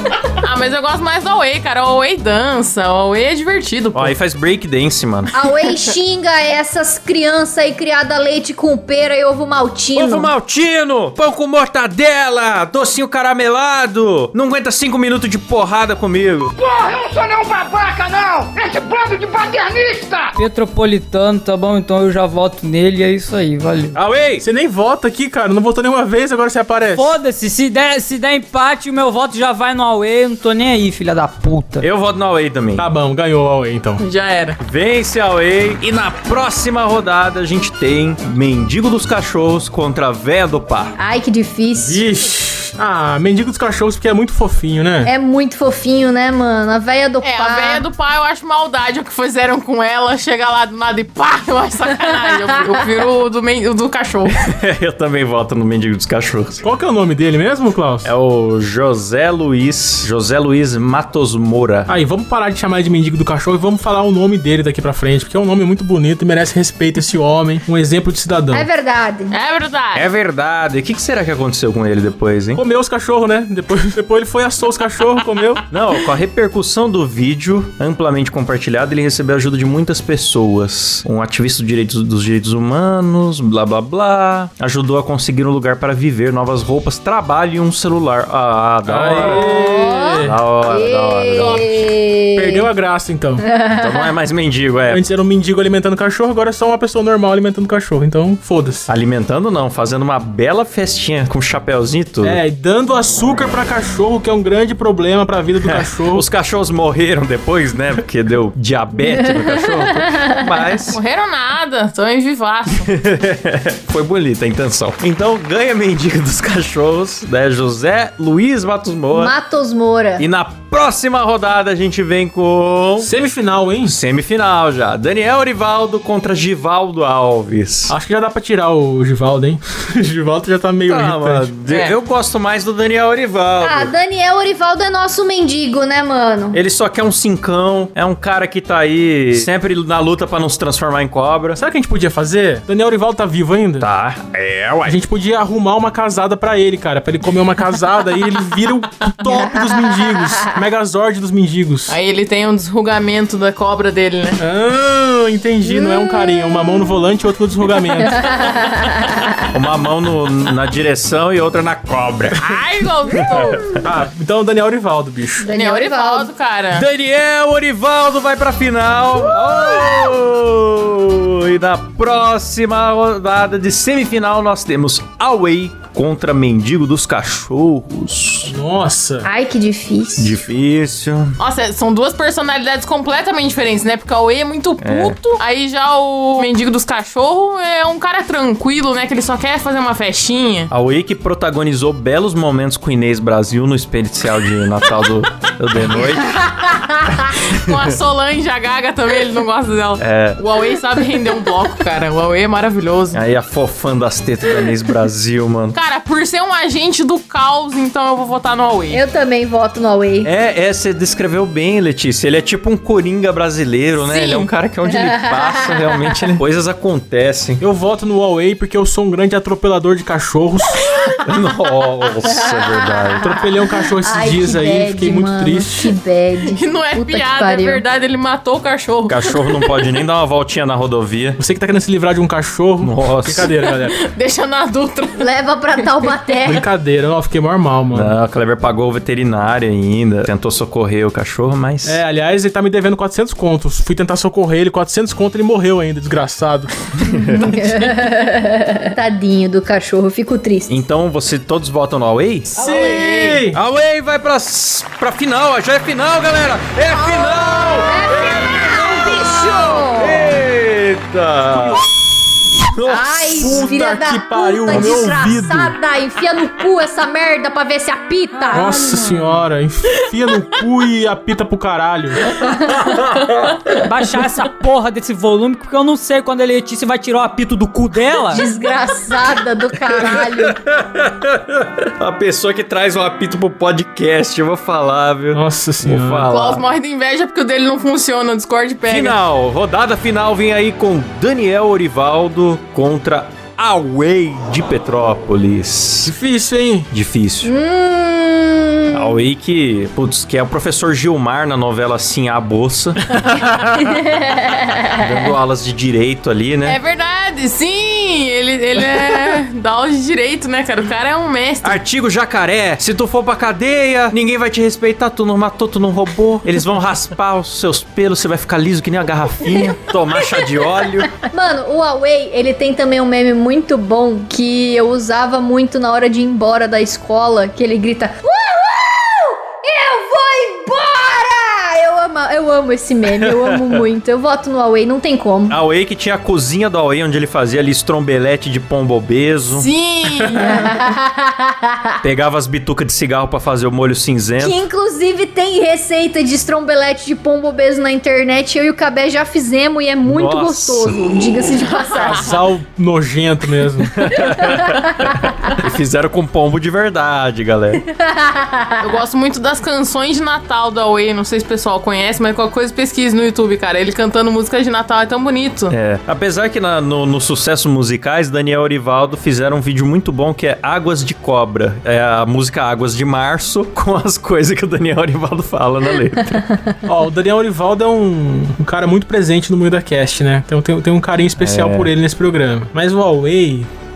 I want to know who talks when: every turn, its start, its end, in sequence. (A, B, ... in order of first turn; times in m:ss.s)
0:00.4-0:04.1 A
0:03.9-0:05.3 B
0:05.3-0:10.3 C
0:09.9-0:16.5 B
0:16.6-0:20.3 D
0:20.3-0:24.0 E
0:23.9-0:24.4 B
0:24.4-0:27.1 F
0:26.9-0:31.8 E
0:31.8-0:32.8 B
0:32.8-0:34.0 F
0:34.0-0:34.6 A
0:34.6-0:40.9 B
0:41.0-0:42.0 C
0:41.8-0:45.1 F
0:45.0-0:47.8 C
0:47.2-0:54.4 A
0:54.4-0:56.6 B
0:56.6-0:58.1 F
0:58.0-1:01.9 B
1:01.9-1:08.7 F
1:08.5-1:09.3 C
1:09.3-1:10.1 A
1:09.9-1:12.6 B
1:12.6-1:15.6 F
1:15.7-1:29.5 B
1:28.8-1:30.3 F
1:29.2-1:32.7 C
1:30.2-1:31.6 B
1:32.3-1:33.4 F
1:33.4-1:34.1 C
1:33.8-1:35.0 B
1:34.9-1:38.9 F
1:38.9-1:42.4 B
1:42.2-1:46.2 F
1:45.6-1:51.0 B
1:49.1-1:49.5 C
1:50.9-1:52.9 A
1:52.8-1:59.3 B
1:59.1-2:00.2 C
2:00.2-2:03.1 B
2:03.0-2:04.0 F
2:03.8-2:07.9 B
2:07.9-2:11.5 F
2:10.9-2:13.9 B
2:11.7-2:12.0 A
2:13.6-2:16.6 C
2:16.5-2:21.6 B
2:21.5-2:23.8 F
2:23.8-2:25.0 B
2:24.8-2:31.9 F
2:29.3-2:29.9 C
2:31.9-2:34.4 A
2:34.4-2:38.3 F
2:35.7-2:36.6 C
2:38.2-2:39.4 C
2:39.5-2:42.6 B
2:42.4-2:43.6 A
2:43.2-2:43.8 B
2:43.8-2:45.4 F
2:45.4-2:46.3 C
2:45.5-2:46.9 A
2:46.7-2:58.5 B
2:58.5-2:59.3 F
2:59.2-3:00.4 C
3:00.2-3:01.3 B
3:01.4-3:10.7 A
3:04.8-3:05.2 B
3:10.7-3:17.9 B
3:16.6-3:17.0 C
3:17.4-3:23.2 A
3:20.0-3:20.4 B
3:23.1-3:25.8 B
3:25.7-3:29.0 A
3:28.9-3:30.3 C
3:30.2-3:37.6 B
3:34.0-3:34.5 A
3:35.1-3:35.8 C
3:37.6-3:41.0 F
3:41.2-3:43.3 B
3:42.3-3:43.2 C
3:43.2-3:45.9 F
3:44.0-3:47.8 C
3:46.5-3:49.8 A
3:49.1-3:51.4 B
3:51.4-3:53.9 F
3:52.8-3:53.5 B
3:53.6-3:56.3 A
3:55.2-3:56.6 C
3:56.5-3:58.1 F
3:57.9-4:02.0 B
4:01.8-4:07.9 F
4:07.0-4:07.4 B
4:07.3-4:10.7 C
4:10.7-4:12.6 B
4:12.6-4:13.6 F
4:12.7-4:13.0 A
4:13.5-4:21.8 B
4:17.1-4:20.3 C
4:21.5-4:21.8 F
4:22.6-4:23.7 B
4:22.8-4:28.8 C
4:23.3-4:25.8 F
4:24.7-4:25.3 B
4:28.4-4:29.2 E
4:28.5-4:32.2 F
4:32.6-4:33.6 B
4:33.8-4:38.5 E
4:38.3-4:40.6 C
4:39.9-4:46.6 B
4:45.3-4:46.2 F
4:46.3-4:49.2 A
4:48.9-4:56.1 B
4:56.0-4:56.9 F
4:56.9-4:57.5 B
4:57.4-4:59.2 C
4:58.9-5:04.0 B
5:04.2-5:05.0 C
5:04.9-5:06.8 B
5:06.6-5:11.8 A
5:11.6-5:21.1 B
5:21.1-5:35.6 C
5:33.2-5:33.8 B
5:35.5-5:40.4 B
5:39.5-5:40.6 A
5:40.4-5:42.0 C
5:42.0-5:44.5 B
5:44.4-5:52.3 C
5:50.0-5:51.0 B
5:51.8-5:52.2 A
5:52.0-5:53.9 F
5:54.0-5:57.8 B
5:54.5-5:55.5 C
5:57.8-5:58.9 C
5:58.8-6:05.7 A
6:05.7-6:16.4 B
6:16.8-6:23.7 F
6:21.4-6:21.9 B